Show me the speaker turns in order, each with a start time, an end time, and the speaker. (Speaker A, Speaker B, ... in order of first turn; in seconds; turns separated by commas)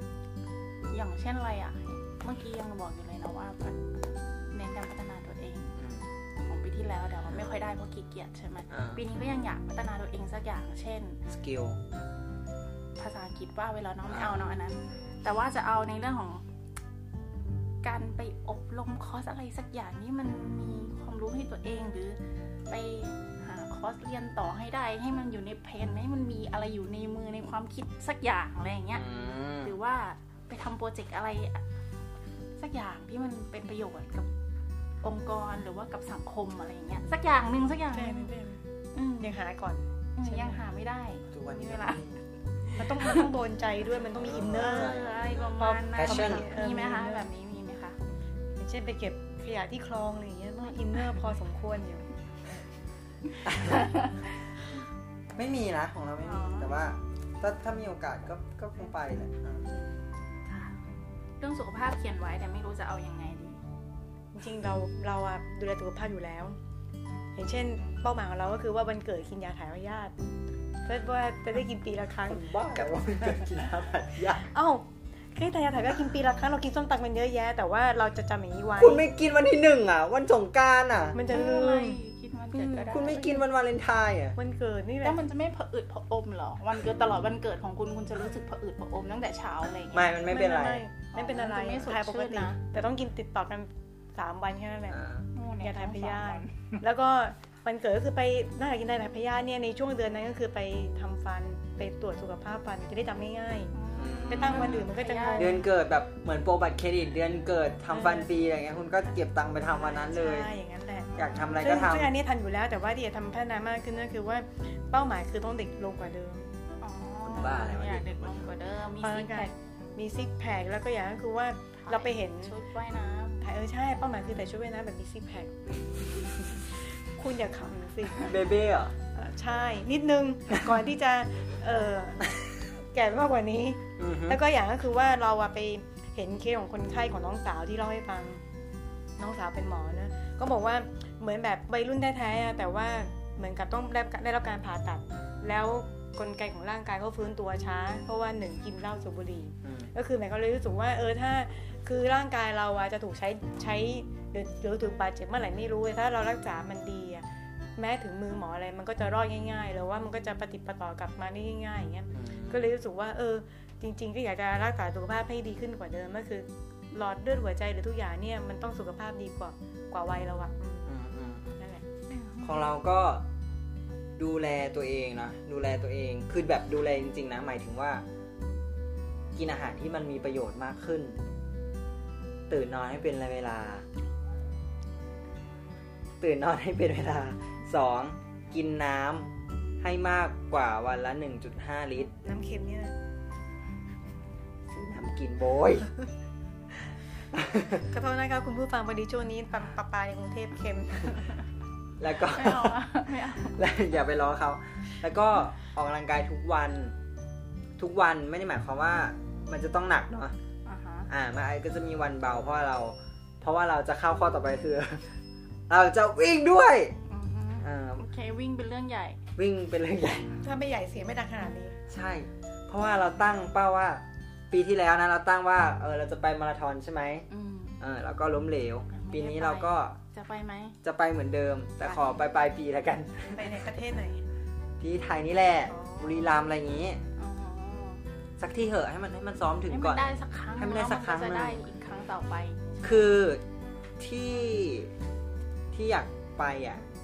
Speaker A: 0.9-3.8, Speaker A: 4.5-5.8, Speaker B: 5.8-6.0, Speaker A: 6.4-11.2, Speaker B: 8.7-9.0, Speaker B: 11.3-11.8, Speaker A: 13.0-16.4, Speaker B: 14.1-14.4, Speaker A: 17.8-22.2, Speaker A: 22.7-29.1, Speaker B: 28.9-29.7, Speaker A: 29.6-31.6, Speaker A: 32.6-34.3, Speaker A: 35.0-38.3, Speaker C: 37.9-38.6, Speaker A: 38.9-39.4, Speaker C: 39.2-40.6, Speaker A: 40.1-42.0, Speaker B: 41.3-42.2, Speaker C: 42.7-45.0, Speaker B: 44.2-46.5, Speaker A: 44.5-48.0, Speaker C: 45.6-47.3, Speaker C: 48.6-52.0, Speaker A: 53.3-54.2, Speaker B: 53.5-53.9, Speaker B: 55.3-59.7, Speaker A: 56.2-56.8, Speaker C: 59.7-60.0, Speaker A: 60.5-60.8, Speaker A: 61.4-63.6, Speaker C: 64.3-66.5, Speaker C: 67.3-70.1, Speaker C: 70.8-73.4, Speaker B: 72.3-74.5, Speaker C: 74.4-79.1, Speaker B: 78.8-81.2, Speaker C: 81.1-82.0, Speaker A: 81.3-83.4, Speaker C: 82.5-83.0, Speaker B: 82.9-84.4, Speaker C: 84.4-85.2, Speaker A: 85.0-90.1, Speaker B: 89.9-90.8, Speaker C: 90.3-95.0, Speaker A: 91.1-92.6, Speaker B: 94.9-95.2, Speaker A: 95.3-96.8, Speaker C: 95.6-103.7, Speaker A: 103.7-105.6, Speaker B: 104.0-110.5, Speaker C: 104.3-105.6, Speaker C: 107.9-108.3, Speaker C: 109.7-116.5, Speaker B: 111.1-112.1, Speaker A: 116.8-119.5, Speaker B: 117.2-118.5, Speaker C: 119.0-122.5, Speaker A: 121.8-123.5, Speaker C: 123.4-128.4, Speaker B: 128.2-128.9, Speaker C: 129.1-138.4, Speaker B: 134.0-134.4, Speaker C: 139.2-157.2, Speaker B: 149.6-149.9, Speaker C: 157.8-170.9, Speaker B: 162.1-162.7, Speaker B: 170.8-171.6, Speaker C: 171.6-171.8, Speaker A: 172.1-172.5, Speaker B: 172.4-173.2, Speaker B: 174.2-178.0, Speaker B: 179.3-181.2, Speaker B: 182.5-183.8, Speaker B: 186.2-189.3, Speaker B: 189.8-192.2, Speaker C: 192.2-192.9, Speaker B: 194.7-196.1, Speaker B: 196.7-197.9, Speaker C: 197.9-201.3, Speaker B: 202.0-202.8, Speaker A: 202.3-203.6, Speaker B: 203.5-206.9, Speaker B: 207.8-210.3, Speaker A: 210.6-211.1, Speaker B: 211.1-215.1, Speaker B: 215.7-216.9, Speaker A: 217.1-219.2, Speaker B: 217.6-218.0, Speaker B: 219.3-220.4, Speaker C: 220.4-221.8, Speaker B: 221.9-227.3, Speaker A: 227.3-227.8, Speaker B: 227.8-230.0, Speaker A: 228.9-230.8, Speaker B: 230.8-233.6, Speaker C: 233.3-234.2, Speaker B: 234.8-237.0, Speaker C: 235.7-236.4, Speaker A: 237.2-238.0, Speaker B: 238.4-241.6, Speaker A: 239.7-243.0, Speaker B: 242.8-243.4, Speaker B: 244.0-244.9, Speaker B: 245.7-246.8